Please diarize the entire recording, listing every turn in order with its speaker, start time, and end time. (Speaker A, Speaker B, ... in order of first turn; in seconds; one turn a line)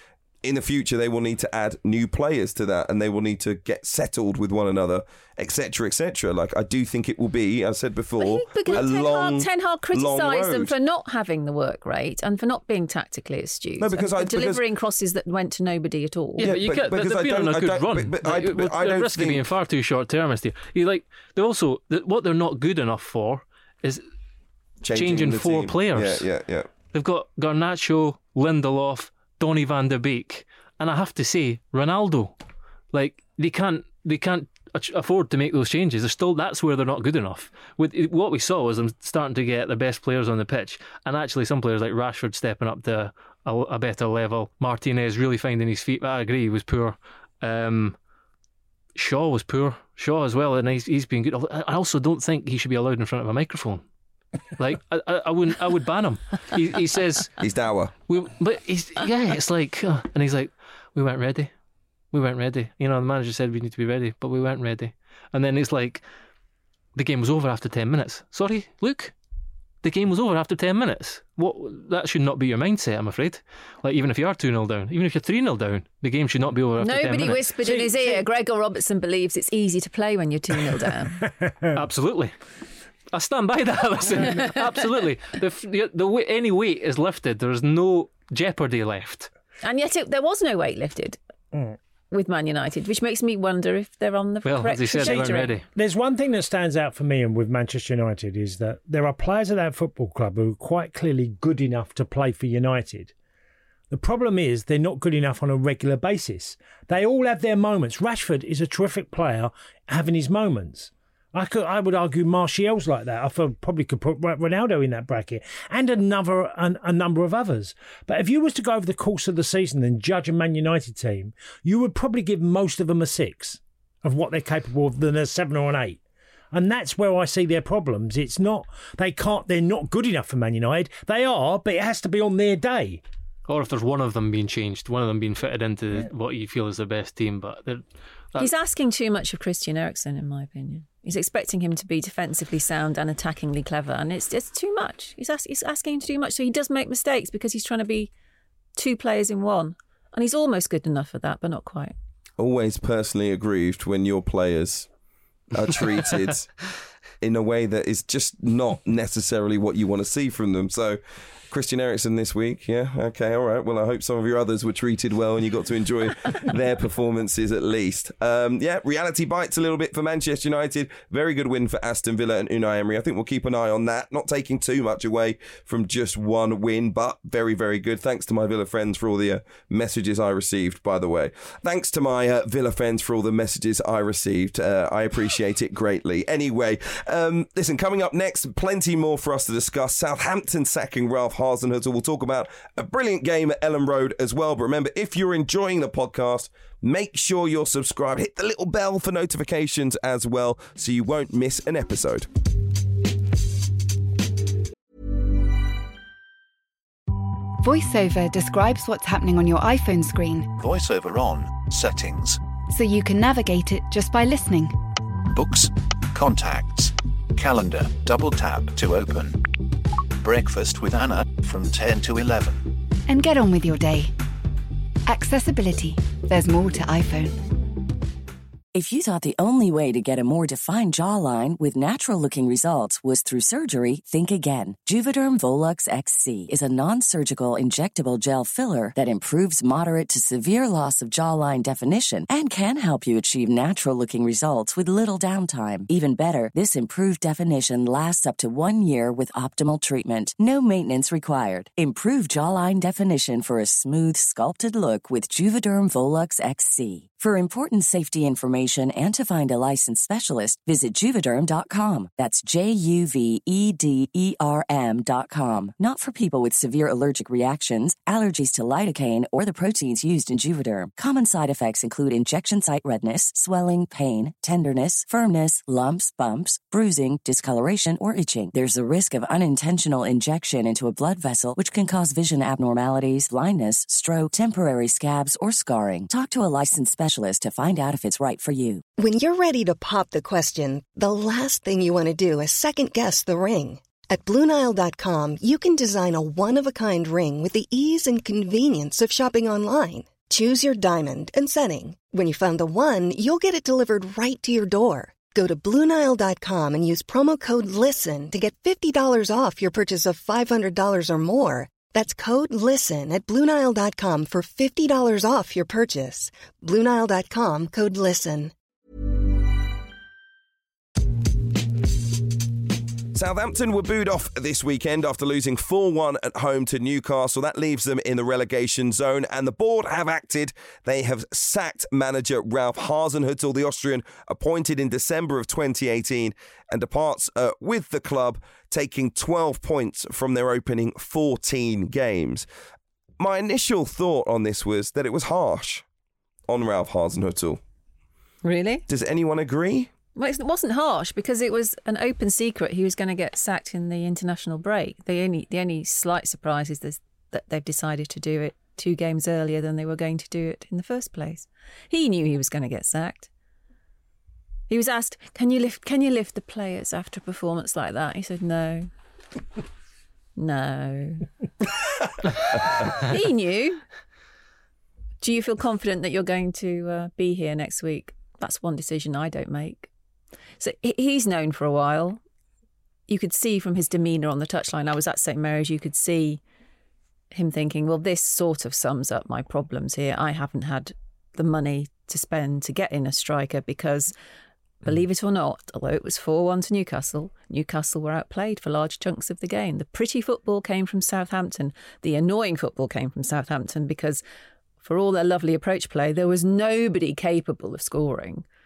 Speaker A: 0.4-10.7
Speaker B: 8.2-16.5
Speaker A: 13.8-14.6
Speaker C: 16.4-24.0
Speaker A: 16.4-19.4
Speaker A: 24.8-26.7
Speaker C: 24.9-26.3
Speaker C: 26.9-32.4
Speaker C: 32.9-48.0
Speaker C: 49.0-53.8
Speaker C: 54.6-57.4
Speaker A: 57.4-57.9
Speaker C: 58.1-61.5
Speaker C: 62.1-66.0
Speaker C: 67.0-69.1
Speaker C: 69.8-78.2
Speaker B: 76.8-81.2
Speaker C: 81.7-82.3
Speaker C: 83.1-89.3
Speaker B: 89.6-91.2
Speaker B: 92.1-95.5
Speaker C: 94.5-95.7
Speaker D: 95.0-103.1
Speaker D: 103.9-126.0
Speaker D: 126.5-133.0
Speaker C: 133.5-138.5
Speaker B: 138.4-148.1
Speaker B: 148.8-151.9
Speaker A: 152.4-154.9
Speaker A: 155.5-156.5
Speaker A: 157.2-202.3
Speaker E: 207.6-210.5
Speaker F: 210.6-212.4
Speaker E: 212.7-214.8
Speaker F: 215.3-219.5
Speaker F: 220.2-222.8
Speaker E: 223.1-224.1
Speaker E: 225.1-227.4
Speaker G: 228.8-288.8
Speaker H: 289.0-318.5
Speaker A: 323.1-342.5
Speaker A: 343.2-345.9
Speaker A: 346.5-347.6
Speaker B: 348.4-348.9
Speaker A: 348.9-349.9
Speaker B: 350.2-363.3
Speaker B: 364.7-368.9
Speaker B: 370.4-371.3
Speaker B: 372.5-373.8
Speaker B: 375.2-379.9
Speaker B: 380.6-382.2
Speaker B: 383.1-386.4
Speaker B: 387.3-394.1
Speaker B: 394.9-404.2
Speaker B: 404.8-408.4